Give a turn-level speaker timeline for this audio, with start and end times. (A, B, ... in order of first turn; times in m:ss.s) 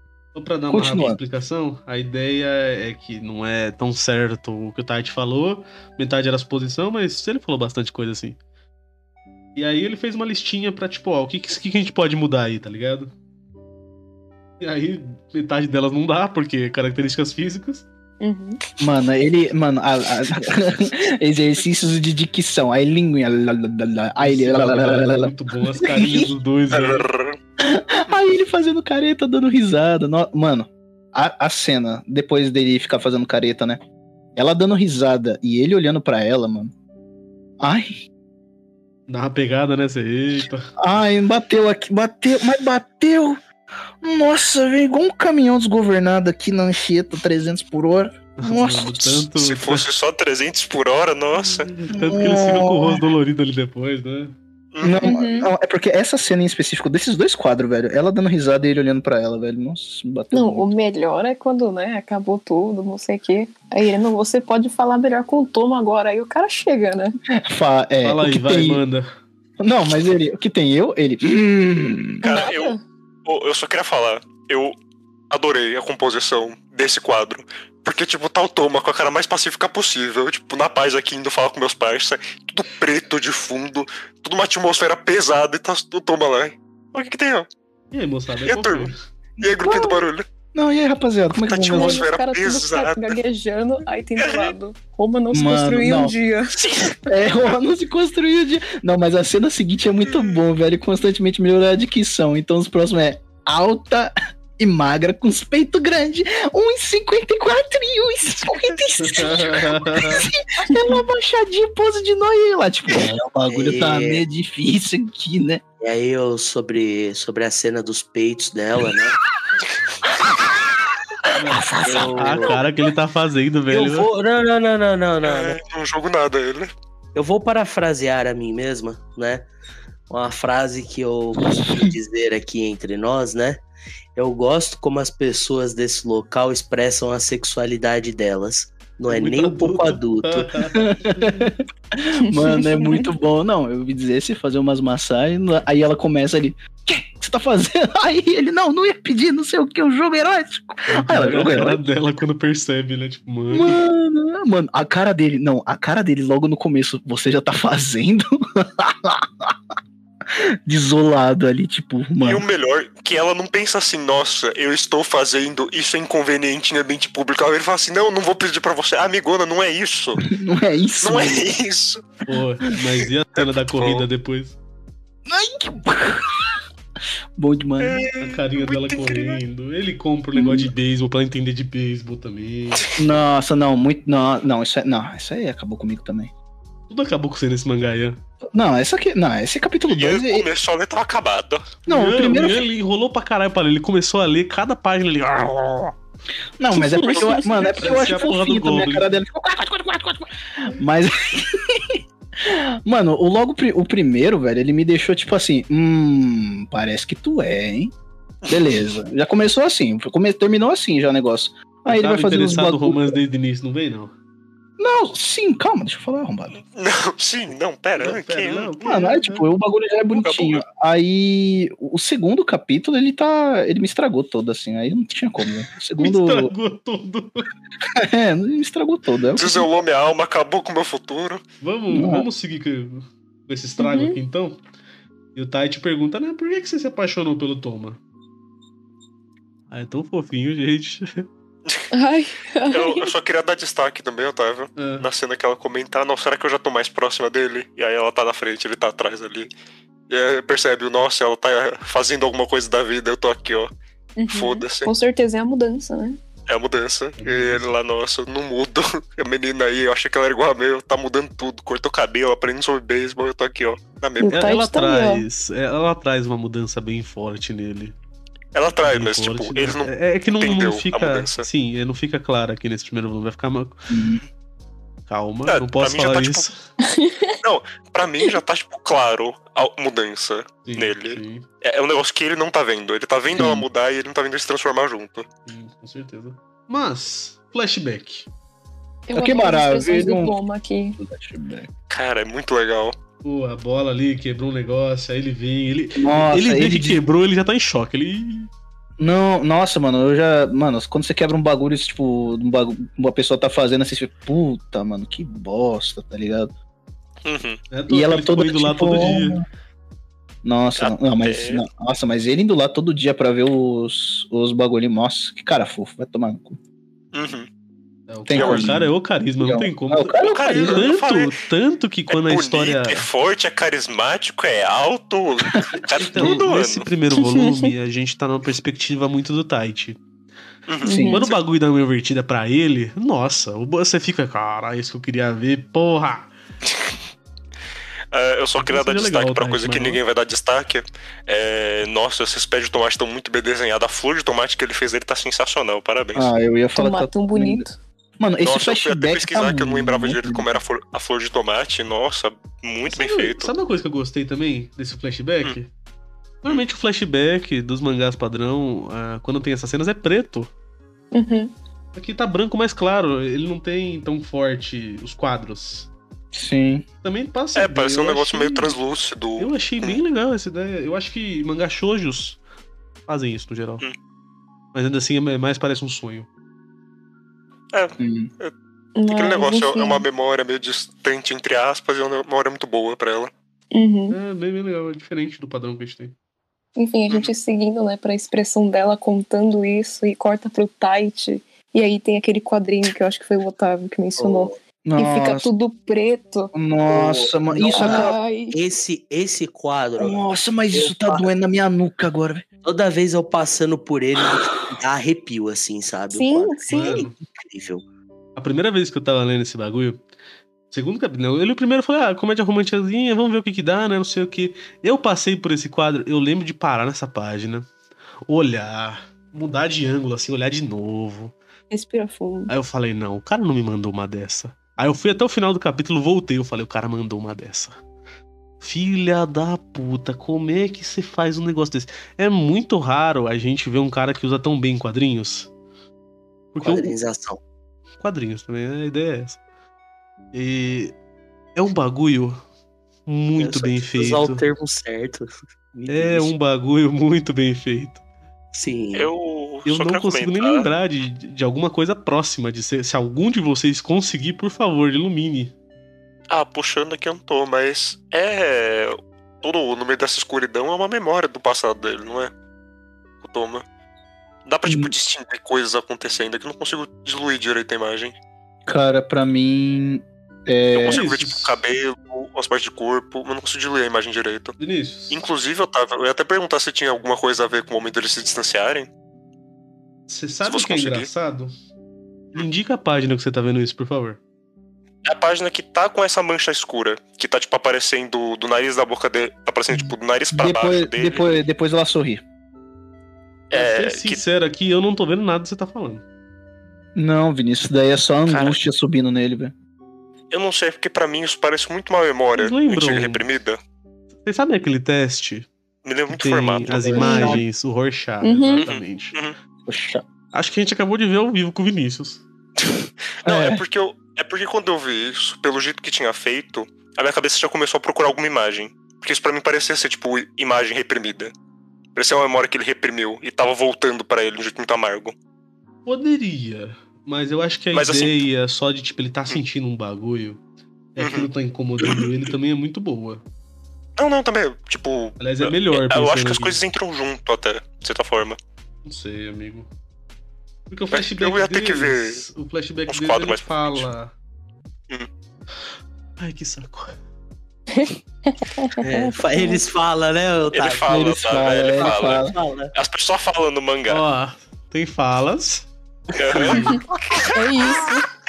0:00.3-0:08.4 A
0:00.7-0:01.2 B
0:09.6-0:13.1 A
0:14.6-0:17.8 A
0:18.2-0:18.6 C
0:18.8-0:26.3 B
0:24.2-0:27.1 A
0:26.7-0:27.4 D
0:27.6-0:33.8 B
0:34.4-0:36.7 B
0:37.6-0:37.9 B
0:39.1-0:40.6 A
0:40.8-0:43.4 B
0:44.0-0:49.3 B
0:48.4-0:49.9 A
0:49.4-0:51.7 D
0:51.7-0:54.3 A
0:51.9-0:53.0 B
0:54.7-0:55.1 D
0:54.8-1:00.7 B
0:55.0-0:55.5 C
1:00.3-1:07.2 C
1:07.4-1:08.8 B
1:08.0-1:09.0 A
1:09.6-1:12.2 B
1:12.2-1:12.7 D
1:12.2-1:12.8 C
1:13.2-1:14.8 D
1:15.3-1:27.5 D
1:27.9-1:29.0 A
1:28.4-1:30.2 D
1:30.5-1:32.0 B
1:31.5-1:33.2 D
1:31.7-1:36.6 C
1:34.2-1:34.5 D
1:35.3-1:36.1 B
1:37.0-1:55.6 B
1:49.0-1:50.3 A
1:50.7-1:51.0 C
1:53.5-1:54.2 E
1:55.8-1:59.2 E
2:01.4-2:04.1 A
2:01.4-2:02.5 B
2:01.8-2:02.6 E
2:03.7-2:05.6 E
2:05.2-2:06.7 D
2:07.1-2:09.5 E
2:10.1-2:13.6 E
2:11.4-2:11.9 B
2:14.2-2:20.5 E
2:19.1-2:21.4 A
2:20.7-2:31.8 B
2:22.3-2:23.0 C
2:30.9-2:33.8 A
2:33.5-2:39.5 B
2:40.6-2:42.4 B
2:42.2-2:50.2 D
2:50.2-2:51.5 B
2:51.0-2:52.1 D
2:52.2-2:54.6 A
2:53.7-2:54.0 D
2:55.2-2:56.6 B
2:57.4-2:58.0 B
2:57.8-2:59.4 D
2:58.2-3:02.8 A
3:00.3-3:00.7 B
3:03.0-3:06.3 B
3:06.9-3:08.2 A
3:08.5-3:10.5 B
3:09.9-3:11.8 D
3:11.8-3:15.9 A
3:11.8-3:12.6 B
3:16.6-3:27.9 B
3:17.2-3:19.1 A
3:28.5-3:33.2 B
3:31.9-3:34.1 A
3:34.8-3:36.6 B
3:36.6-3:38.8 D
3:38.0-3:39.5 A
3:38.8-3:46.5 B
3:40.1-3:40.6 D
3:46.0-3:47.5 A
3:47.9-3:49.7 B
3:49.4-3:51.4 D
3:51.6-3:54.6 A
3:51.9-3:52.2 B
3:53.8-3:54.2 C
3:55.3-3:58.0 A
3:59.7-4:01.3 A
4:01.9-4:03.1 C
4:02.7-4:09.5 D
4:04.8-4:05.1 A
4:10.1-4:13.7 D
4:14.2-4:16.2 C
4:14.3-4:14.9 D
4:16.5-4:24.4 D
4:17.2-4:17.7 A
4:24.2-4:25.2 C
4:24.3-4:27.9 A
4:28.5-4:31.5 D
4:28.8-4:33.8 A
4:33.9-4:34.2 B
4:35.1-4:36.6 A
4:35.5-4:36.5 D
4:36.8-4:37.3 C
4:37.4-4:45.2 D
4:40.6-4:41.4 A
4:43.3-4:43.6 B
4:45.5-4:48.3 A
4:49.1-4:51.0 C
4:49.1-4:50.4 B
4:51.0-4:51.7 B
4:51.9-4:53.0 D
4:53.2-4:58.5 A
4:56.0-4:57.0 B
4:59.0-5:06.5 B
5:07.2-5:07.6 D
5:07.7-5:09.4 A
5:07.9-5:09.4 B
5:10.4-5:16.6 B
5:10.8-5:11.6 D
5:17.1-5:17.5 D
5:18.1-5:23.1 A
5:18.3-5:20.8 B
5:18.3-5:18.8 D
5:20.2-5:21.3 D
5:22.1-5:26.9 D
5:26.0-5:30.0 A
5:27.2-5:27.7 C
5:30.7-5:31.4 D
5:30.8-5:31.3 C
5:30.8-5:31.2 B
5:31.1-5:36.3 A
5:38.1-5:46.3 D
5:38.6-5:40.0 A
5:46.1-5:47.6 B
5:46.7-5:47.8 C
5:48.2-5:50.5 B
5:48.4-5:53.5 D
5:52.9-5:55.7 A
5:56.4-6:00.5 A
6:01.1-6:01.5 C
6:01.9-6:05.9 A
6:06.3-6:06.8 B
6:07.0-6:08.7 A
6:07.5-6:10.0 D
6:09.4-6:12.4 A
6:13.1-6:13.8 A
6:14.7-6:16.3 A
6:17.7-6:18.5 D
6:18.0-6:18.3 B
6:18.9-6:20.0 C
6:19.1-6:23.3 D
6:23.7-6:24.2 C
6:24.1-6:26.1 A
6:26.8-6:36.5 C
6:34.2-6:34.5 E
6:34.8-6:35.5 B
6:36.5-6:38.2 B
6:36.9-6:40.2 E
6:37.7-6:38.6 C
6:40.0-6:42.4 B
6:40.7-6:41.3 E
6:42.6-6:47.8 E
6:46.1-6:47.0 C
6:46.7-6:47.1 A
6:48.4-6:50.0 A
6:50.7-6:57.6 A
6:58.3-7:01.3 A
7:01.7-7:02.5 C
7:02.5-7:07.8 A
7:08.6-7:15.5 A
7:16.5-7:16.9 A
7:16.6-7:17.4 E
7:18.0-7:19.4 A
7:20.3-7:20.9 A
7:21.5-7:22.4 A
7:23.1-7:24.4 A
7:23.4-7:26.3 E
7:25.9-7:28.0 A
7:28.5-7:29.1 E
7:28.9-7:30.7 D
7:29.6-7:35.5 A
7:36.3-7:42.3 D
7:43.2-7:43.6 D
7:44.4-7:48.1 D
7:44.6-7:44.9 B
7:48.7-7:51.0 B
7:50.7-7:54.6 D
7:50.9-7:51.6 A
7:54.6-7:55.2 A
7:55.1-7:58.9 D
8:00.1-8:01.5 A
8:00.4-8:01.1 D
8:02.3-8:04.2 A
8:05.0-8:11.2 D
8:09.7-8:12.2 B
8:13.5-8:14.2 D
8:13.5-8:16.0 A
8:17.0-8:19.5 B
8:18.3-8:18.6 D
8:20.3-8:23.6 D
8:22.3-8:23.2 A
8:24.2-8:25.5 A
8:25.8-8:27.4 D
8:26.1-8:29.1 A
8:27.0-8:27.4 C
8:27.0-8:27.4 B
8:28.2-8:28.6 C
8:28.6-8:29.3 D
8:29.7-8:30.0 B
8:30.3-8:32.2 A
8:32.7-8:41.3 D
8:33.2-8:33.6 B
8:41.9-8:45.2 D
8:45.8-8:50.4 A
8:47.7-8:48.2 D
8:50.9-8:53.2 A
8:51.0-8:51.3 D
8:54.0-8:58.4 D
8:55.2-8:56.6 A
8:58.8-8:59.7 A
9:00.7-9:04.1 A
9:00.9-9:02.2 D
9:02.9-9:03.9 D
9:06.2-9:06.9 A
9:07.7-9:09.6 C
9:08.8-9:12.7 E
9:10.5-9:14.0 D
9:10.9-9:12.3 B
9:13.9-9:15.7 A
9:16.1-9:17.9 D
9:16.3-9:16.8 A
9:17.3-9:18.1 C